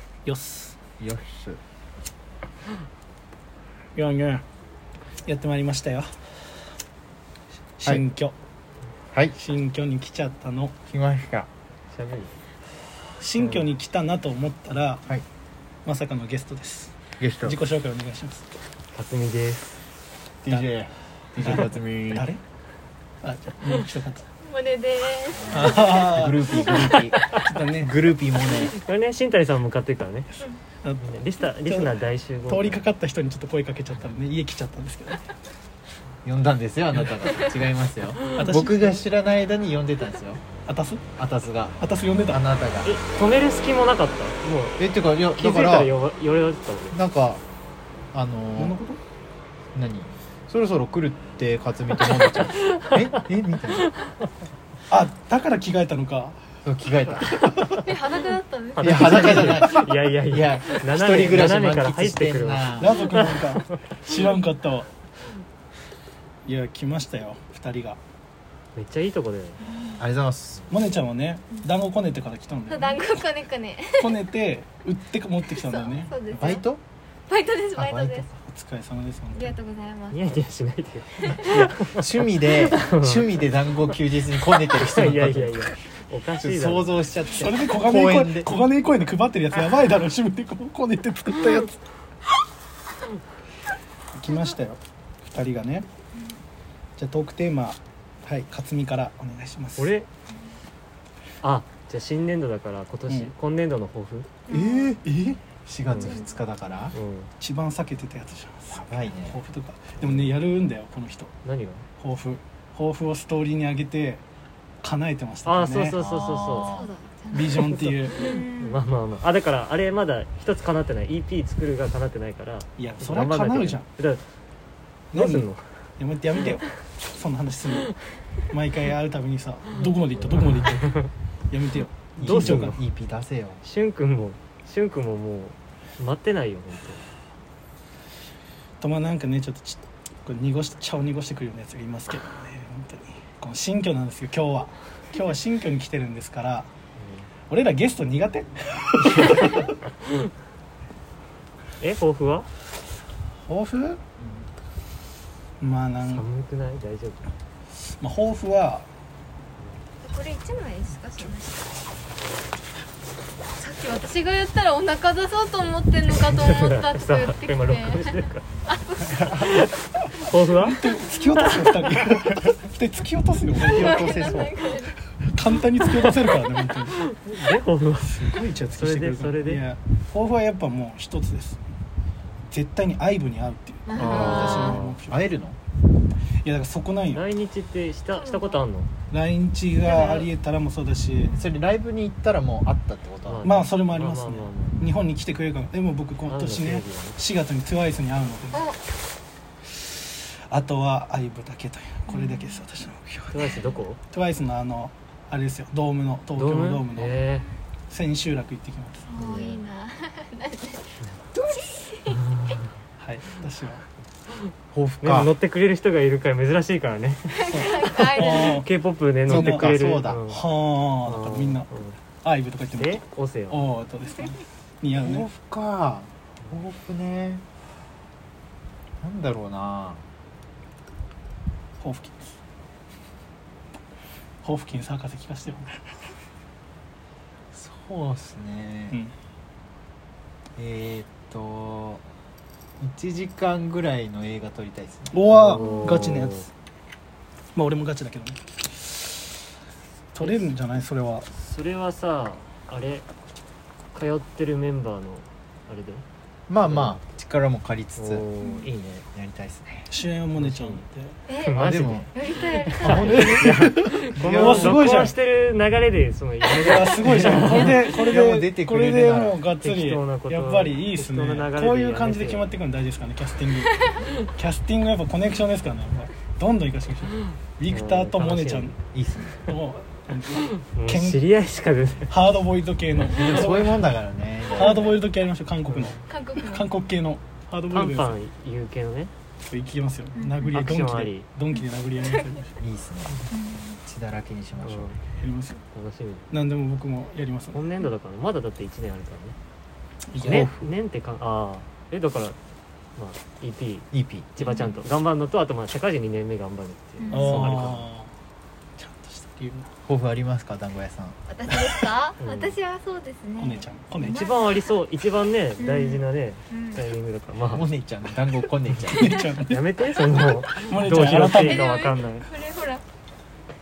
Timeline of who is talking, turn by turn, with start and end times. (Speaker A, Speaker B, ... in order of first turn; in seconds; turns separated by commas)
Speaker A: 0.2-0.8, Speaker B: 1.0-1.6, Speaker A: 3.9-4.4, Speaker A: 5.2-6.1, Speaker A: 7.8-8.3, Speaker B: 9.1-9.4, Speaker A: 9.3-10.7, Speaker B: 10.9-11.5, Speaker C: 11.9-12.3, Speaker A: 13.2-15.0, Speaker C: 13.4-13.7, Speaker A: 15.8-18.5, Speaker B: 17.2-17.6, Speaker C: 18.9-19.7, Speaker B: 20.4-22.3, Speaker A: 21.4-22.4, Speaker A: 23.2-24.3, Speaker D: 24.4-26.0, Speaker B: 25.4-28.7, Speaker A: 25.5-26.7, Speaker A: 27.3-28.0, Speaker C: 28.4-30.4, Speaker A: 30.8-31.1, Speaker C: 31.0-32.8, Speaker A: 31.6-35.3, Speaker B: 36.2-40.4, Speaker A: 38.3-39.0, Speaker A: 40.6-41.1, Speaker B: 41.2-43.0, Speaker A: 41.8-42.4, Speaker C: 42.8-47.0, Speaker B: 44.8-45.9, Speaker B: 46.9-47.4, Speaker B: 48.1-48.8, Speaker A: 48.6-49.0, Speaker B: 49.7-53.9, Speaker C: 52.1-53.0, Speaker A: 54.9-56.4, Speaker B: 56.6-57.8, Speaker D: 57.8-59.5, Speaker C: 58.8-63.4, Speaker B: 58.8-63.0, Speaker A: 62.8-64.9, Speaker A: 66.5-68.0, Speaker C: 68.8-69.6, Speaker D: 69.7-70.0, Speaker B: 70.0-70.7, Speaker A: 70.7-73.1, Speaker D: 72.7-74.2, Speaker A: 74.0-76.3, Speaker D: 75.5-76.7, Speaker B: 76.3-76.8, Speaker D: 77.3-78.3, Speaker B: 77.8-78.3, Speaker A: 78.4-79.5, Speaker D: 79.3-80.2, Speaker C: 80.1-81.9, Speaker D: 81.2-81.7, Speaker B: 81.8-85.6, Speaker C: 82.5-83.3, Speaker C: 84.7-87.0, Speaker B: 86.4-88.5, Speaker A: 87.4-91.8, Speaker A: 94.2-95.9, Speaker A: 97.0-99.9, Speaker C: 99.8-100.1, Speaker C: 101.4-104.3, Speaker D: 104.5-105.0, Speaker B: 104.5-106.9, Speaker A: 105.1-105.4, Speaker D: 105.9-106.3, Speaker C: 106.9-107.3, Speaker A: 107.4-111.3, Speaker B: 108.7-109.4, Speaker C: 110.0-110.3, Speaker C: 111.4-111.8, Speaker A: 112.0-114.2, Speaker A: 114.8-116.0, Speaker C: 115.4-116.7, Speaker B: 115.9-116.9, Speaker D: 116.6-118.8, Speaker A: 117.3-118.2, Speaker C: 117.5-124.2, Speaker A: 122.8-123.9, Speaker C: 125.1-125.7, Speaker A: 125.1-127.9, Speaker A: 128.5-132.8, Speaker C: 129.8-130.8, Speaker B: 132.2-133.6, Speaker C: 132.2-132.8, Speaker C: 133.6-137.0, Speaker A: 138.8-146.7, Speaker C: 147.0-147.3, Speaker A: 147.5-149.7, Speaker C: 149.1-149.7, Speaker C: 151.8-152.5, Speaker A: 153.4-154.0, Speaker A: 155.6-156.2, Speaker C: 156.1-157.3, Speaker A: 158.0-158.9, Speaker D: 160.0-161.8, Speaker D: 163.6-169.6, Speaker C: 166.4-168.5, Speaker C: 169.2-171.9, Speaker A: 170.6-174.1, Speaker D: 173.6-175.0, Speaker B: 173.6-174.7, Speaker A: 175.2-177.1, Speaker C: 177.1-179.6, Speaker A: 178.0-181.6, Speaker A: 182.5-185.3, Speaker D: 183.9-184.8, Speaker B: 183.9-185.6, Speaker C: 184.5-184.9, Speaker A: 186.4-187.2, Speaker C: 187.1-188.9, Speaker D: 188.1-188.6, Speaker A: 189.1-191.3, Speaker D: 189.9-190.3, Speaker B: 191.3-193.7, Speaker C: 193.2-194.8, Speaker A: 193.4-198.7, Speaker C: 196.3-197.2, Speaker D: 198.5-198.8, Speaker A: 200.5-207.2, Speaker D: 202.1-202.6, Speaker C: 203.3-204.0, Speaker D: 203.5-203.8, Speaker C: 206.3-207.5, Speaker A: 207.9-209.1, Speaker D: 209.1-212.2, Speaker C: 209.2-209.6, Speaker A: 213.0-213.8, Speaker B: 214.7-215.3, Speaker C: 215.0-220.4, Speaker D: 217.3-218.6, Speaker A: 217.4-218.7, Speaker A: 219.2-221.7, Speaker B: 219.3-220.2, Speaker C: 221.0-222.0, Speaker A: 222.2-225.3, Speaker C: 222.7-223.6, Speaker B: 225.0-227.4, Speaker B: 229.0-230.0, Speaker A: 231.8-232.3, Speaker A: 234.4-235.8, Speaker B: 237.5-239.0, Speaker B: 240.6-242.0, Speaker B: 242.8-245.3, Speaker A: 245.1-246.5, Speaker C: 245.3-246.4, Speaker D: 245.6-246.0, Speaker A: 247.5-248.4, Speaker A: 250.1-251.3, Speaker C: 250.2-250.5, Speaker C: 251.3-253.1, Speaker C: 253.9-256.0, Speaker B: 256.5-258.3, Speaker C: 256.6-257.0, Speaker C: 258.0-259.1, Speaker D: 258.4-258.7, Speaker B: 259.1-259.9, Speaker A: 259.9-261.2, Speaker C: 260.4-260.8, Speaker D: 261.3-263.4, Speaker C: 261.4-267.8, Speaker B: 261.5-262.2, Speaker B: 262.8-264.8, Speaker A: 262.8-265.1, Speaker A: 266.6-278.7, Speaker B: 267.1-269.4, Speaker C: 269.6-272.5, Speaker C: 277.7-278.8, Speaker B: 278.9-279.4, Speaker A: 279.5-281.2, Speaker C: 280.7-282.1, Speaker A: 282.1-283.9, Speaker B: 283.1-285.0, Speaker A: 284.5-288.2, Speaker D: 286.1-286.6, Speaker C: 287.7-289.1, Speaker A: 289.4-292.5, Speaker D: 290.2-290.4, Speaker C: 290.5-291.3, Speaker D: 291.5-292.2, Speaker B: 292.6-293.3, Speaker D: 293.3-293.8, Speaker B: 293.8-294.9, Speaker C: 294.6-295.0, Speaker A: 295.2-295.6, Speaker C: 295.7-296.4, Speaker A: 296.3-297.6, Speaker C: 297.5-299.4, Speaker A: 300.1-300.4, Speaker B: 300.1-300.7, Speaker C: 300.2-302.4, Speaker C: 302.9-307.7, Speaker B: 303.9-304.3, Speaker D: 304.4-304.8, Speaker D: 307.0-307.4, Speaker A: 307.1-308.1, Speaker B: 307.2-307.8, Speaker A: 308.8-309.7, Speaker B: 309.9-311.2, Speaker D: 311.3-314.6, Speaker C: 312.2-312.5, Speaker A: 313.4-314.2, Speaker C: 314.0-317.7, Speaker D: 315.6-316.9, Speaker B: 317.5-319.1, Speaker A: 318.7-319.6, Speaker C: 319.5-322.3, Speaker A: 320.1-321.7, Speaker D: 321.4-322.8